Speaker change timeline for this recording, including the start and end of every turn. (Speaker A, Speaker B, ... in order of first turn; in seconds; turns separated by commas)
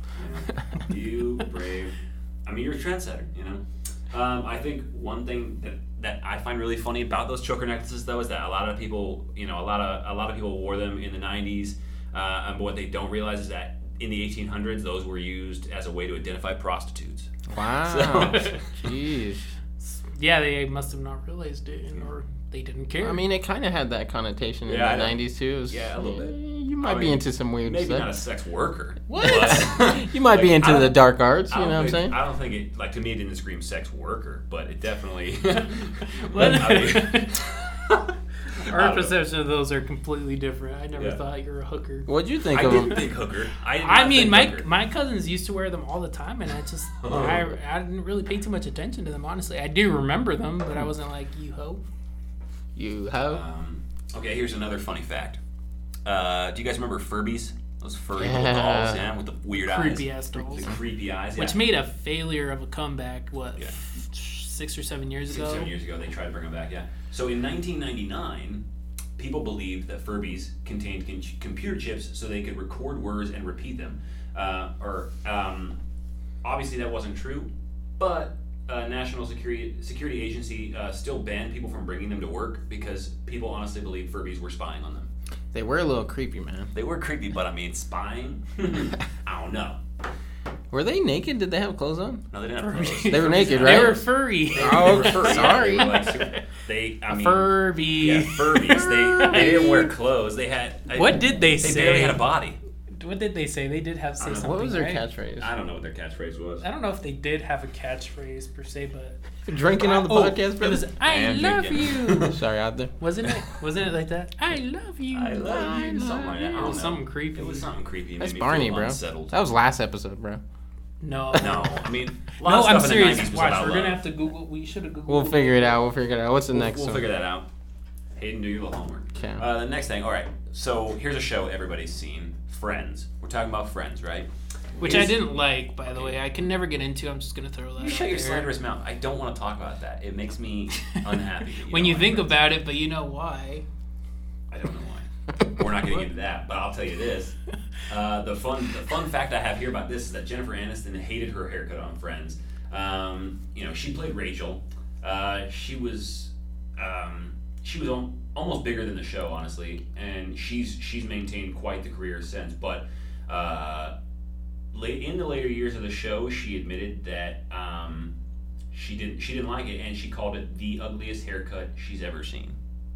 Speaker A: 0.1-18.6, Speaker B: 17.5-19.5, Speaker C: 18.3-18.6, Speaker C: 19.8-23.2, Speaker B: 23.0-28.1, Speaker A: 24.7-25.2, Speaker A: 25.7-39.1, Speaker C: 29.1-29.7, Speaker B: 29.2-32.1, Speaker C: 36.1-37.4, Speaker C: 38.6-43.1, Speaker B: 42.1-43.0, Speaker A: 42.5-44.7, Speaker C: 43.8-51.8, Speaker A: 47.0-47.5, Speaker B: 52.8-53.4, Speaker A: 53.2-55.4, Speaker A: 56.0-61.6, Speaker B: 58.1-59.0, Speaker C: 59.6-60.8, Speaker C: 61.4-65.7, Speaker A: 65.3-68.6, Speaker A: 69.2-75.8, Speaker A: 76.4-85.1, Speaker B: 85.5-86.7, Speaker A: 86.7-89.8, Speaker B: 90.7-92.2, Speaker A: 92.3-102.6, Speaker C: 92.6-96.1, Speaker B: 93.1-94.0, Speaker B: 94.5-96.2, Speaker C: 97.1-99.9, Speaker B: 99.3-99.6, Speaker C: 100.9-102.2, Speaker C: 103.0-105.0, Speaker A: 104.2-104.6, Speaker B: 104.4-105.5, Speaker A: 105.4-106.6, Speaker C: 106.6-109.2, Speaker B: 109.5-110.8, Speaker C: 109.8-112.4, Speaker A: 111.0-112.4, Speaker B: 112.2-112.9, Speaker C: 113.0-115.7, Speaker A: 115.1-119.4, Speaker B: 115.4-116.8, Speaker C: 116.5-117.7, Speaker B: 118.2-120.4, Speaker C: 121.0-121.8, Speaker A: 121.4-124.0, Speaker C: 122.4-125.8, Speaker B: 125.1-127.0, Speaker A: 126.5-127.5, Speaker A: 128.2-135.2, Speaker B: 129.1-129.4, Speaker C: 134.8-138.5, Speaker A: 135.9-136.2, Speaker A: 137.8-142.5, Speaker C: 141.6-143.6, Speaker A: 144.5-147.3, Speaker A: 147.9-163.9, Speaker A: 164.7-168.1, Speaker A: 168.7-172.6